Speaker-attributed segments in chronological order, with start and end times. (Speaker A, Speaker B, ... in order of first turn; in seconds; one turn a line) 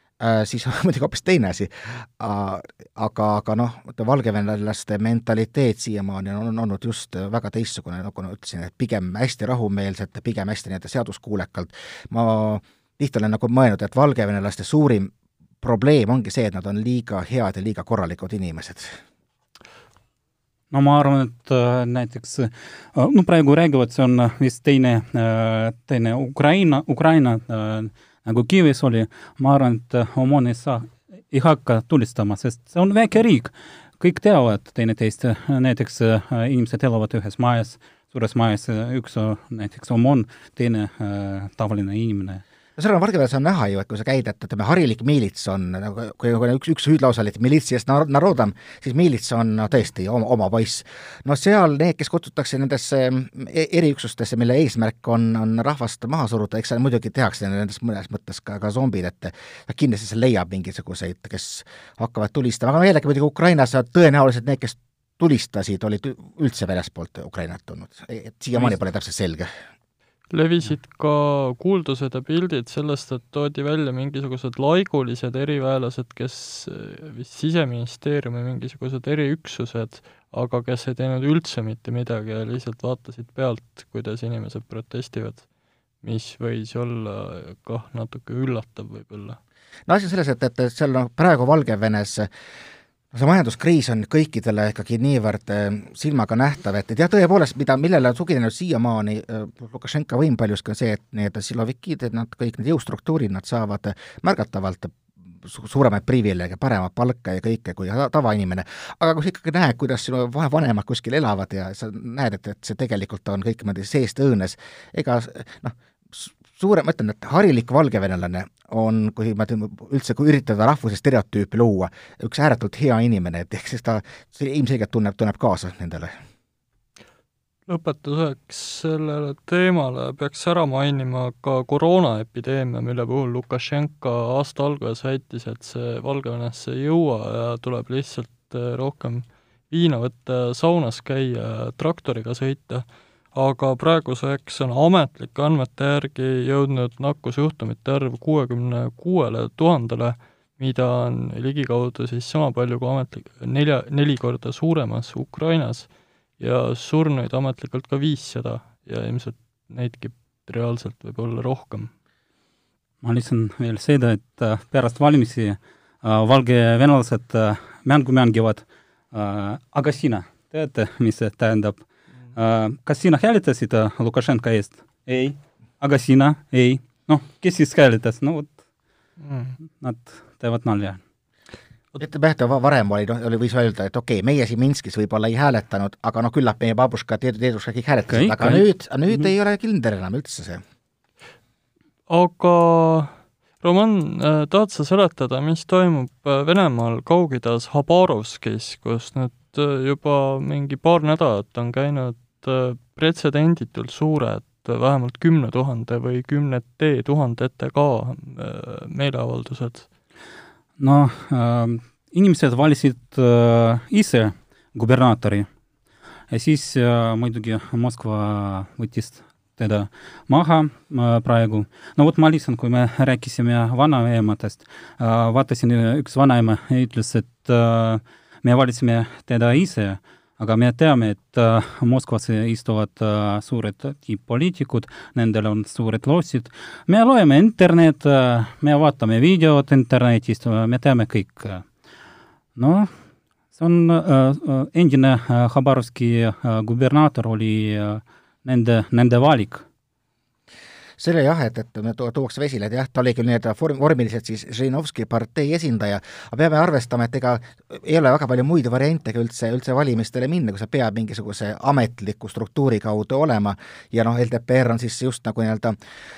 Speaker A: 0.2-19.0
Speaker B: 20.7-42.4
Speaker A: 42.8-69.5
Speaker C: 70.3-85.4
Speaker C: 86.0-89.4
Speaker A: 89.9-92.3
Speaker A: 93.1-126.2
Speaker C: 127.7-161.9
Speaker B: 163.0-171.8
Speaker B: 172.3-178.6
Speaker C: 179.2-179.6
Speaker B: 179.8-181.0
Speaker A: 182.0-190.6
Speaker B: 188.1-188.6
Speaker C: 192.1-209.9
Speaker B: 210.8-215.5
Speaker B: 216.3-241.6
Speaker B: 242.6-242.9
Speaker B: 243.5-249.6
Speaker A: 251.0-265.8